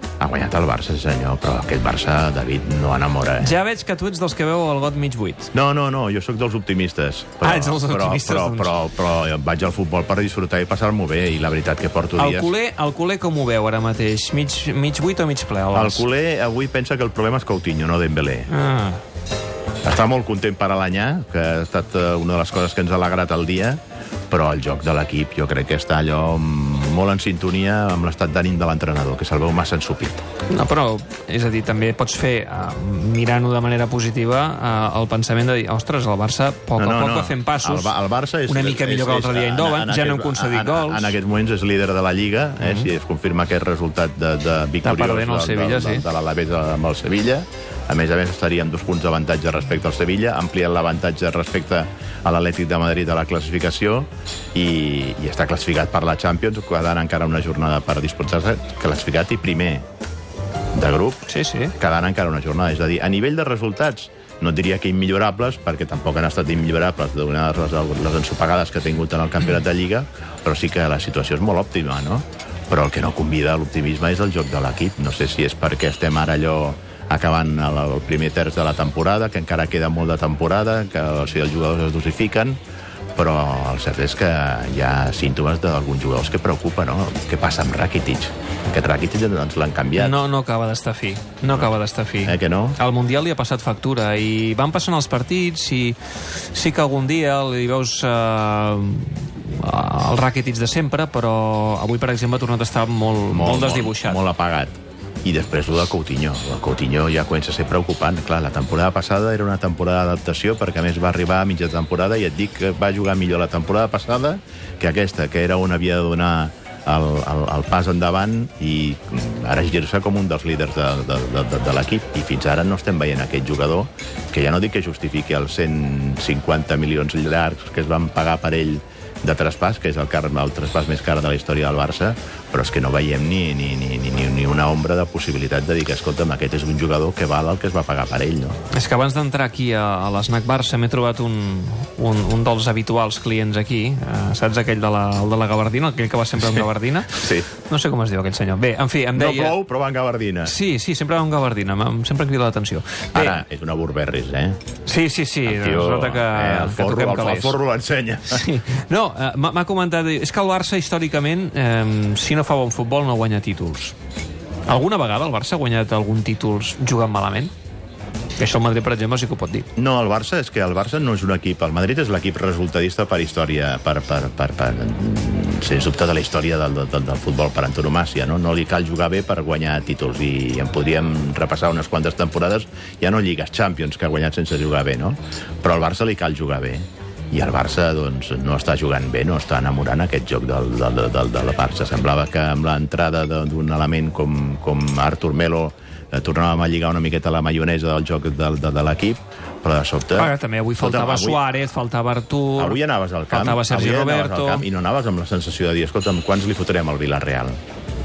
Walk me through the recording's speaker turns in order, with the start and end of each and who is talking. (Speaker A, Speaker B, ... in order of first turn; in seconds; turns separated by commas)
Speaker A: 0.2-3.5, Speaker B: 3.4-5.5, Speaker A: 5.5-12.5, Speaker B: 7.4-8.8, Speaker B: 12.2-16.1, Speaker A: 15.7-18.5, Speaker B: 18.5-19.0, Speaker A: 19.8-30.2, Speaker B: 30.5-38.0, Speaker A: 36.8-59.8, Speaker B: 38.5-41.2, Speaker B: 42.6-42.9, Speaker B: 44.8-46.0, Speaker A: 60.7-82.6, Speaker B: 61.3-61.7, Speaker A: 83.2-90.2, Speaker B: 90.0-104.2, Speaker A: 92.2-92.8, Speaker A: 103.3-138.6, Speaker B: 138.7-149.6, Speaker A: 146.5-147.5, Speaker A: 149.1-150.5, Speaker B: 150.4-153.4, Speaker A: 153.1-154.6, Speaker B: 154.9-157.6, Speaker A: 155.4-158.5, Speaker B: 158.3-163.9, Speaker B: 164.7-167.5, Speaker B: 168.4-169.7, Speaker A: 169.8-201.4, Speaker B: 200.1-202.8, Speaker A: 202.6-207.6, Speaker B: 203.3-204.7